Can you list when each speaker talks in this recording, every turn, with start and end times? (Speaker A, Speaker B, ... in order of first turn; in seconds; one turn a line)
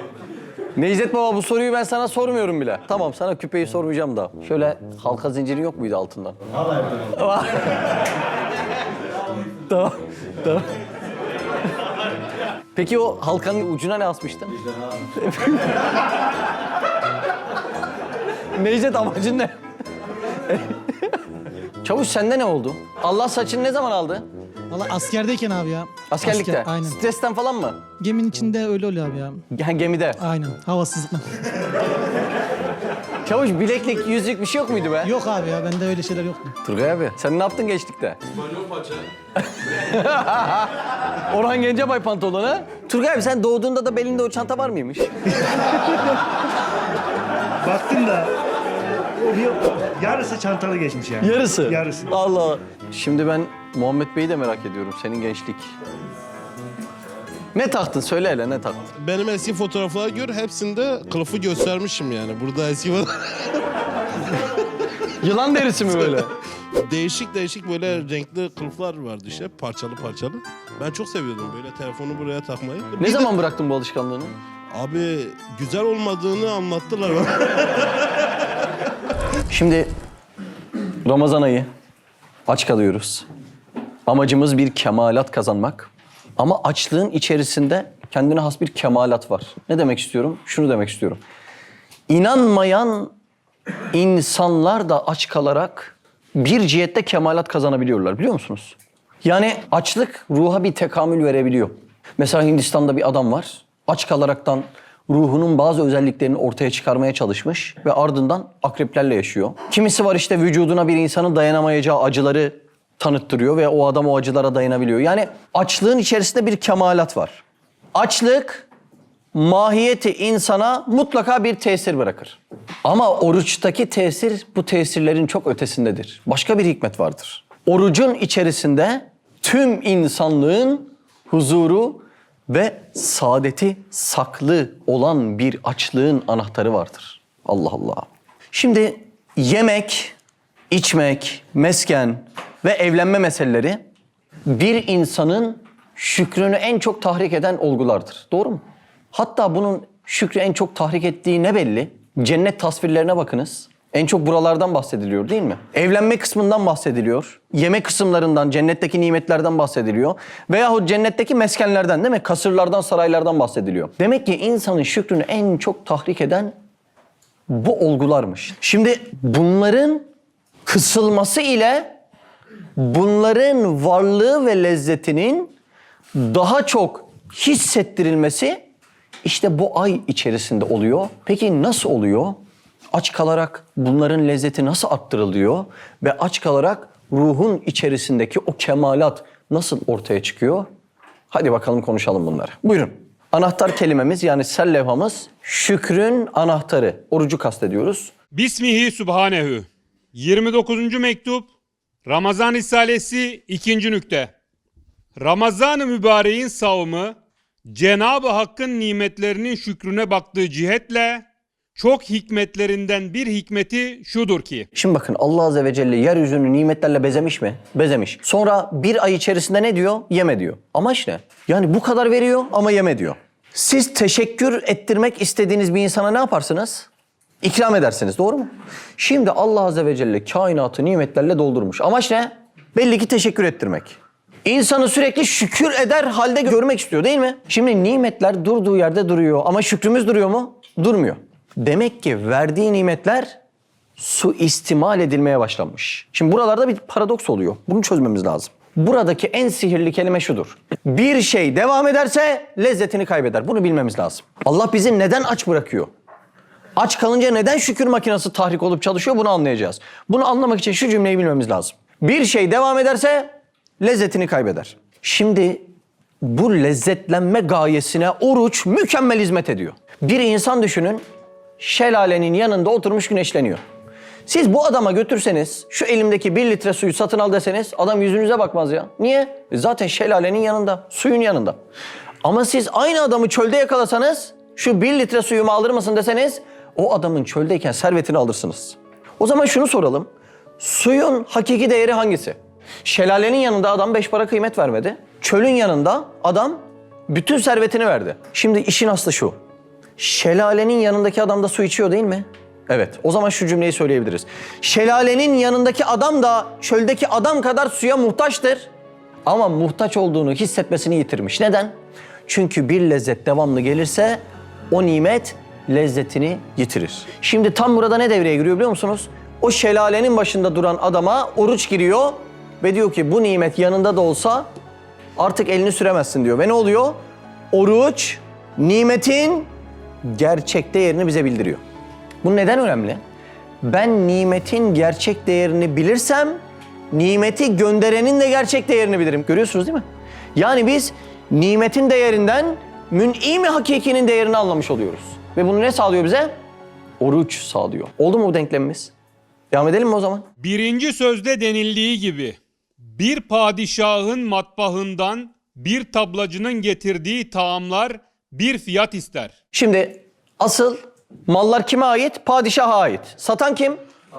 Speaker A: 0.8-6.4
Speaker A: 7.1-7.9
Speaker A: 9.7-10.7
Speaker A: 12.7-14.6
Speaker A: 15.1-15.8
Speaker A: 18.5-19.6
Speaker A: 20.4-21.2
Speaker A: 21.8-24.2
Speaker B: 24.7-27.0
Speaker A: 26.1-27.8
Speaker B: 28.0-29.4
Speaker A: 29.5-30.2
Speaker B: 30.2-31.4
Speaker A: 33.2-35.1
Speaker B: 35.0-36.5
Speaker A: 36.6-38.2
Speaker A: 39.4-45.7
Speaker C: 47.6-48.4
Speaker C: 49.2-52.1
Speaker A: 51.2-55.7
Speaker A: 57.5-58.9
Speaker D: 58.9-63.7
Speaker A: 65.2-66.3
Speaker D: 66.8-73.3
Speaker A: 73.0-74.3
Speaker D: 74.7-78.1
Speaker A: 79.5-79.9
Speaker A: 81.0-81.7
Speaker A: 82.5-83.2
Speaker A: 84.1-91.2
Speaker A: 92.1-93.1
Speaker A: 93.9-117.4
Speaker A: 117.9-118.7
Speaker A: 119.3-140.1
Speaker A: 140.7-143.8
Speaker A: 144.5-148.6
Speaker A: 149.1-166.5
Speaker A: 167.5-170.1
Speaker A: 170.7-171.9
Speaker A: 172.8-175.5
Speaker A: 176.1-178.6
Speaker A: 179.2-182.4
Speaker A: 182.9-190.7
Speaker A: 191.3-198.1
Speaker E: 198.3-201.5
Speaker E: 202.1-204.3
Speaker E: 205.2-207.2
Speaker E: 207.7-211.2
Speaker E: 211.8-214.7
Speaker A: 214.7-226.9
Speaker A: 227.4-243.3
Speaker A: 244.0-255.9
Speaker A: 256.8-265.6
Speaker A: 266.2-271.0
Speaker A: 271.6-273.6
Speaker A: 274.2-281.6
Speaker A: 282.2-299.4
Speaker A: 300.0-308.7
Speaker A: 309.2-311.7
Speaker A: 312.3-324.5
Speaker A: 325.2-327.0
Speaker A: 327.5-329.5
Speaker A: 330.0-331.6
Speaker A: 332.2-333.0
Speaker A: 333.6-339.8
Speaker A: 340.4-346.3
Speaker A: 347.0-348.9
Speaker A: 349.5-350.2
Speaker E: 350.4-352.4
Speaker E: 352.9-359.3
Speaker A: 359.5-363.8